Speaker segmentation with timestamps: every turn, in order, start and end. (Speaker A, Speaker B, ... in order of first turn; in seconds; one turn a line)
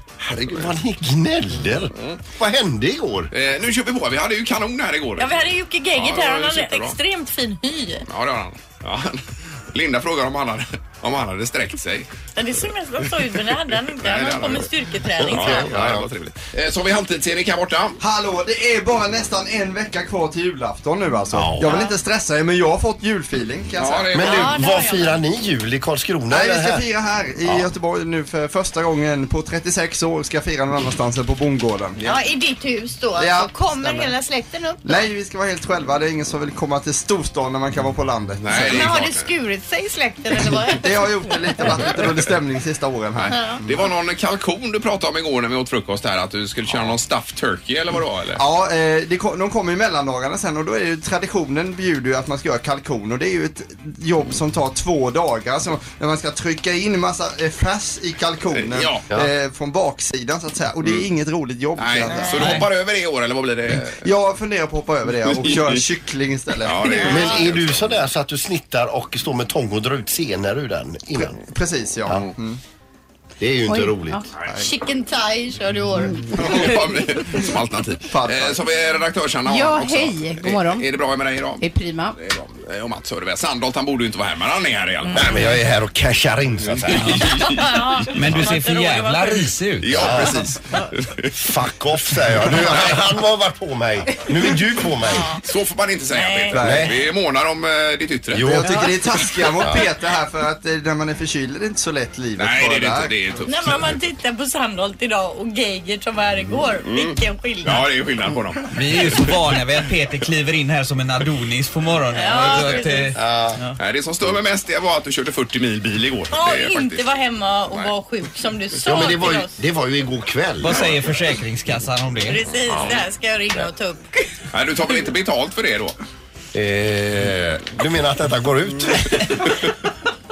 Speaker A: 0.2-3.3
Speaker B: 3.3-7.0
Speaker C: 5.2-8.0
Speaker B: 8.1-12.1
Speaker C: 12.3-15.7
Speaker B: 13.3-18.0
Speaker A: 15.2-16.1
Speaker D: 18.0-24.2
Speaker B: 21.4-21.7
Speaker C: 21.6-21.9
Speaker B: 23.8-24.6
Speaker A: 24.1-26.8
Speaker C: 24.2-25.2
Speaker D: 26.3-32.2
Speaker C: 32.0-35.1
Speaker D: 33.2-34.1
Speaker D: 34.8-38.9
Speaker B: 38.4-39.3
Speaker C: 38.5-42.2
Speaker D: 40.6-43.5
Speaker B: 43.1-48.4
Speaker C: 43.3-43.6
Speaker D: 48.4-62.6
Speaker B: 58.5-59.0
Speaker B: 61.8-64.0
Speaker E: 62.4-62.6
Speaker D: 63.9-67.3
Speaker B: 65.5-65.8
Speaker B: 66.6-68.0
Speaker A: 67.0-71.3
Speaker D: 71.3-72.6
Speaker A: 73.4-74.2
Speaker F: 73.7-74.2
Speaker C: 74.6-77.4
Speaker B: 76.3-81.6
Speaker D: 78.1-78.6
Speaker F: 79.5-80.9
Speaker F: 81.6-82.2
Speaker B: 82.2-85.3
Speaker C: 85.1-85.5
Speaker A: 85.1-87.3
Speaker B: 86.7-88.4
Speaker E: 87.0-87.4
Speaker C: 87.4-89.5
Speaker E: 88.1-90.2
Speaker B: 89.8-91.3
Speaker A: 89.9-90.4
Speaker A: 91.3-95.3
Speaker B: 92.5-92.8
Speaker C: 95.1-95.4
Speaker B: 95.4-98.6
Speaker C: 96.1-96.5
Speaker D: 96.5-96.9
Speaker A: 96.5-97.0
Speaker A: 98.3-98.8
Speaker D: 98.5-103.1
Speaker B: 102.4-103.9
Speaker C: 103.5-107.9
Speaker B: 106.8-109.1
Speaker E: 108.7-113.8
Speaker C: 112.1-113.1
Speaker B: 112.3-112.8
Speaker A: 113.1-113.6
Speaker B: 113.8-117.0
Speaker C: 116.3-119.5
Speaker A: 118.8-120.9
Speaker E: 120.6-122.4
Speaker C: 122.3-124.3
Speaker B: 124.5-125.9
Speaker A: 126.5-129.4